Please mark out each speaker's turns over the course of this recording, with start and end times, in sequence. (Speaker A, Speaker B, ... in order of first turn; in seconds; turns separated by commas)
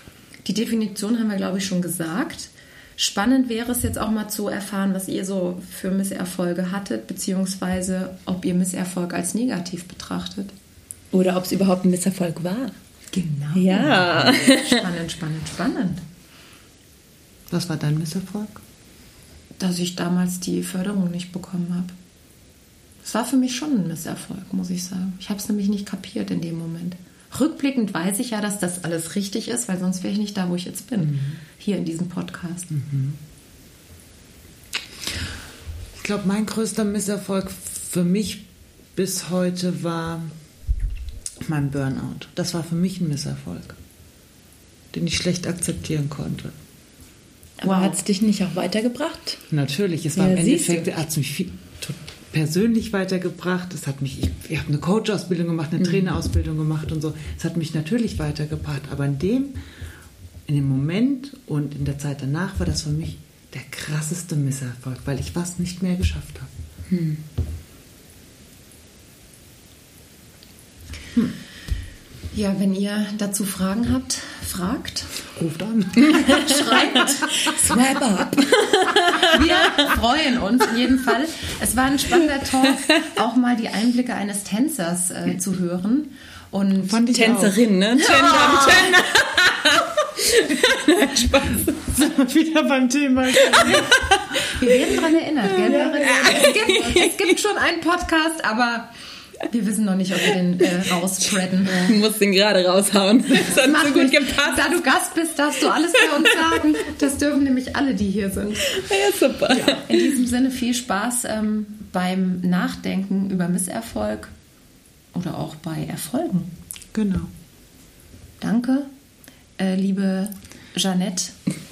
Speaker A: 0.5-10.5, Speaker B: 11.1-12.7, Speaker A: 13.1-16.0, Speaker B: 13.6-14.8, Speaker C: 13.8-14.3, Speaker C: 17.5-18.6, Speaker A: 19.6-21.9, Speaker A: 23.0-32.7, Speaker C: 31.0-31.4, Speaker C: 32.7-33.2, Speaker C: 36.0-40.3, Speaker C: 41.4-43.8, Speaker C: 44.9-46.6, Speaker B: 47.6-49.4, Speaker A: 47.6-48.0, Speaker C: 49.5-59.6, Speaker B: 50.1-50.9, Speaker B: 55.8-56.1, Speaker C: 60.5-66.5, Speaker B: 66.9-67.2, Speaker A: 72.3-75.2, Speaker C: 75.3-77.1, Speaker A: 76.0-78.0, Speaker B: 76.2-79.9, Speaker A: 79.2-87.1, Speaker C: 86.8-88.9, Speaker B: 87.1-91.7, Speaker A: 88.2-88.8, Speaker C: 91.4-93.9, Speaker B: 93.4-94.5, Speaker A: 93.6-98.9, Speaker B: 95.7-97.2, Speaker C: 95.8-96.3, Speaker A: 99.5-102.0, Speaker B: 101.7-104.8, Speaker A: 103.4-108.8, Speaker B: 108.7-110.2, Speaker C: 109.5-109.8, Speaker A: 109.5-114.3, Speaker A: 115.1-116.5, Speaker C: 116.9-117.3, Speaker A: 118.4-118.9, Speaker A: 119.6-121.4